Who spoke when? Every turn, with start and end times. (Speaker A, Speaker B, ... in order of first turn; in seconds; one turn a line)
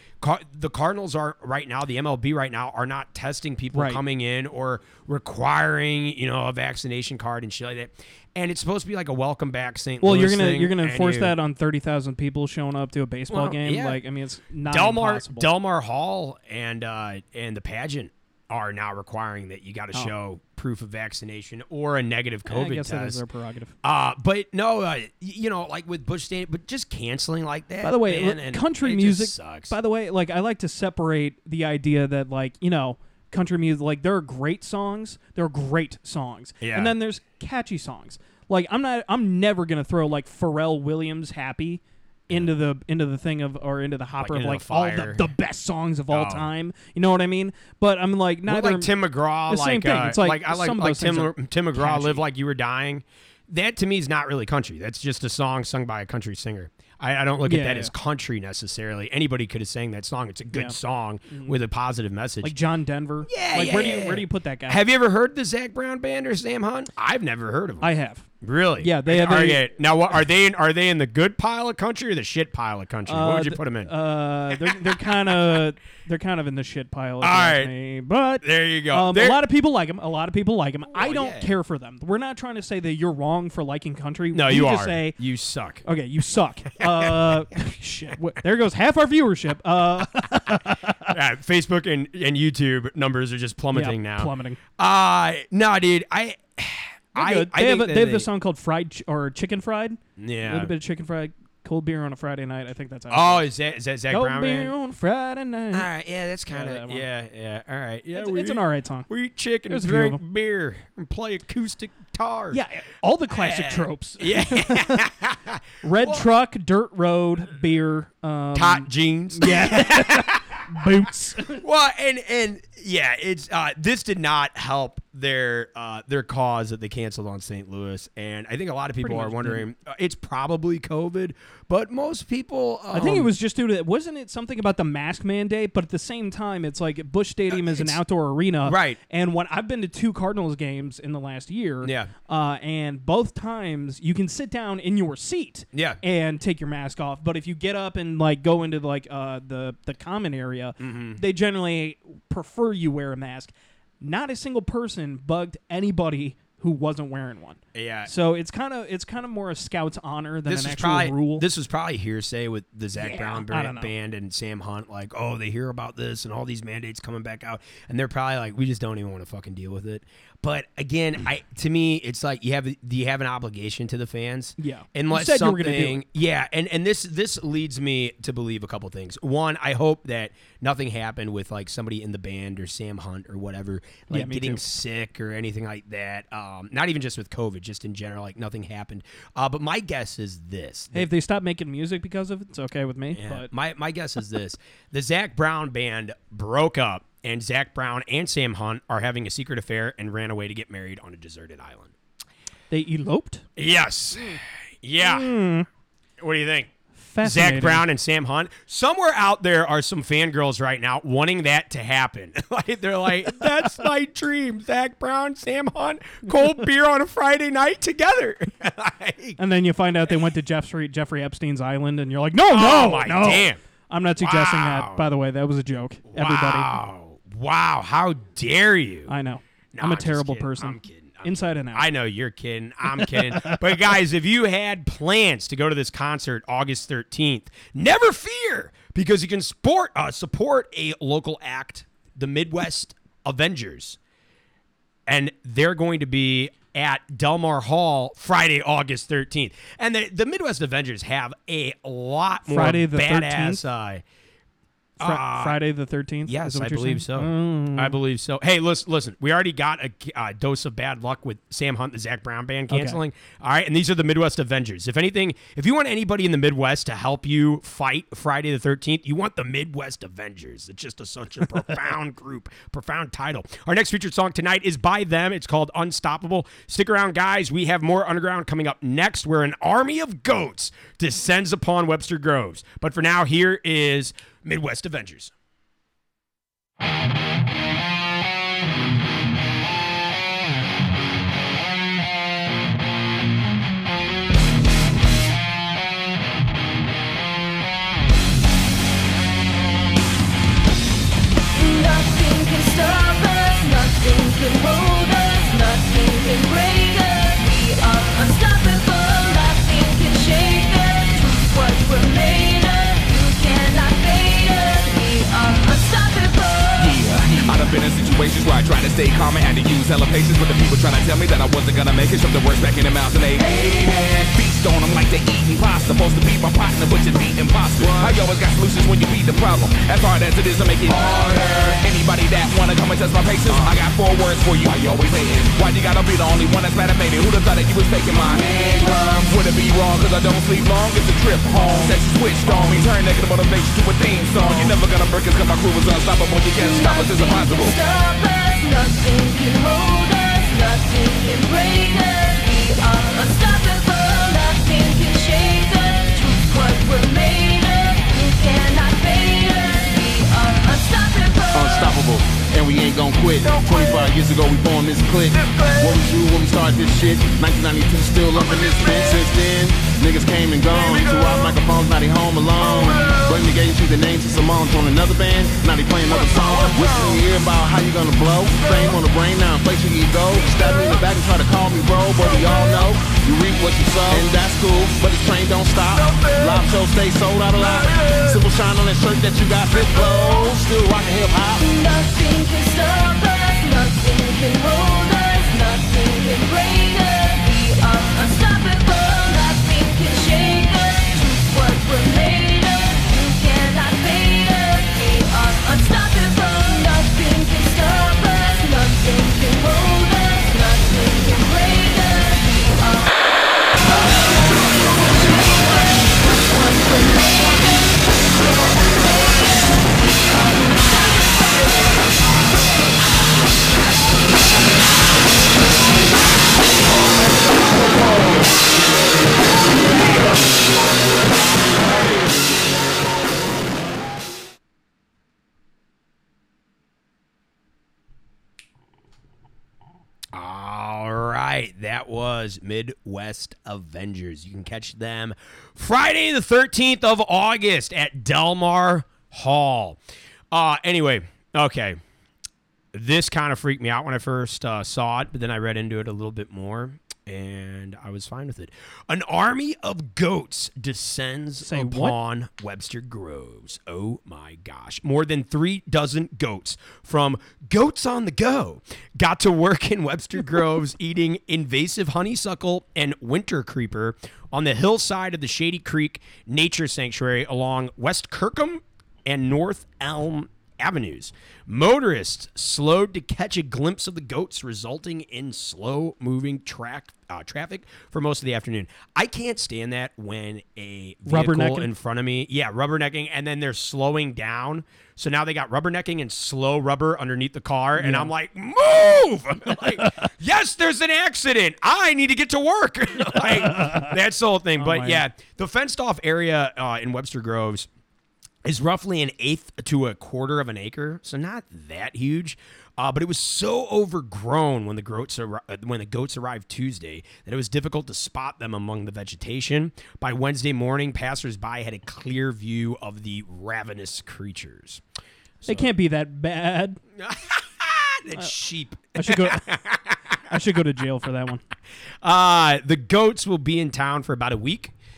Speaker A: 0.2-11.3
Speaker B: 3.7-4.0
Speaker B: 10.0-15.5
Speaker A: 13.3-14.0
Speaker A: 14.7-23.2
Speaker B: 22.5-23.7
Speaker A: 23.8-29.8
Speaker B: 27.8-48.9
Speaker A: 36.6-36.9
Speaker A: 44.2-45.3
Speaker A: 46.1-46.5
Speaker A: 48.5-62.5
Speaker B: 49.5-52.2
Speaker B: 57.4-57.9
Speaker B: 61.3-61.6
Speaker B: 62.4-64.8
Speaker A: 63.3-67.9
Speaker B: 67.8-68.3
Speaker A: 68.4-73.9
Speaker B: 68.8-69.7
Speaker B: 73.1-85.2
Speaker A: 74.7-75.3
Speaker A: 77.2-77.7
Speaker A: 78.4-79.4
Speaker A: 80.9-81.5
Speaker A: 84.3-85.8
Speaker B: 85.8-91.1
Speaker A: 86.8-87.4
Speaker A: 91.0-98.3
Speaker B: 93.7-94.6
Speaker B: 97.2-103.5
Speaker A: 100.2-100.7
Speaker A: 103.1-104.7
Speaker B: 104.1-105.9
Speaker A: 105.7-112.6
Speaker B: 106.5-107.0
Speaker B: 108.1-109.1
Speaker B: 109.7-110.2
Speaker B: 112.5-115.1
Speaker A: 113.3-116.3
Speaker B: 115.8-121.6
Speaker A: 118.5-120.5
Speaker A: 121.5-133.3
Speaker B: 129.0-129.6
Speaker B: 132.9-161.4
Speaker A: 137.5-138.0
Speaker A: 138.6-139.0
Speaker A: 141.8-142.1
Speaker A: 145.7-146.0
Speaker A: 150.8-151.2
Speaker A: 157.8-158.1
Speaker A: 160.5-191.1
Speaker B: 163.0-163.9
Speaker B: 174.6-176.0
Speaker B: 184.1-184.6
Speaker B: 190.9-193.5
Speaker A: 193.1-201.9
Speaker B: 202.7-203.5
Speaker A: 203.6-205.3
Speaker B: 204.2-204.4
Speaker B: 205.0-205.7
Speaker A: 206.2-206.7
Speaker B: 207.1-207.8
Speaker A: 207.2-219.4
Speaker B: 213.4-213.7
Speaker B: 219.4-226.8
Speaker A: 222.5-223.6
Speaker A: 224.2-225.1
Speaker A: 226.1-229.1
Speaker B: 229.1-231.9
Speaker A: 229.7-244.0
Speaker B: 232.9-233.8
Speaker A: 245.1-254.0
Speaker B: 252.5-253.6
Speaker A: 255.0-255.6
Speaker B: 255.0-258.0
Speaker A: 256.3-285.3
Speaker B: 262.7-263.0
Speaker C: 301.7-317.0
Speaker D: 316.8-347.8
Speaker C: 346.7-361.9
Speaker E: 361.5-391.6
Speaker C: 391.6-413.1
Speaker C: 414.5-417.8
Speaker C: 418.9-419.5
Speaker A: 440.3-450.0
Speaker A: 450.5-452.0
Speaker A: 452.9-507.9
Speaker B: 461.6-462.2
Speaker B: 491.3-491.9
Speaker B: 498.0-498.3
Speaker B: 499.8-500.2
Speaker B: 503.3-504.1
Speaker B: 504.8-505.2
Speaker A: 508.6-525.0
Speaker A: 525.6-525.9
Speaker B: 525.7-527.0
Speaker A: 527.2-530.4
Speaker B: 529.1-529.7
Speaker B: 530.5-531.6
Speaker A: 532.2-534.9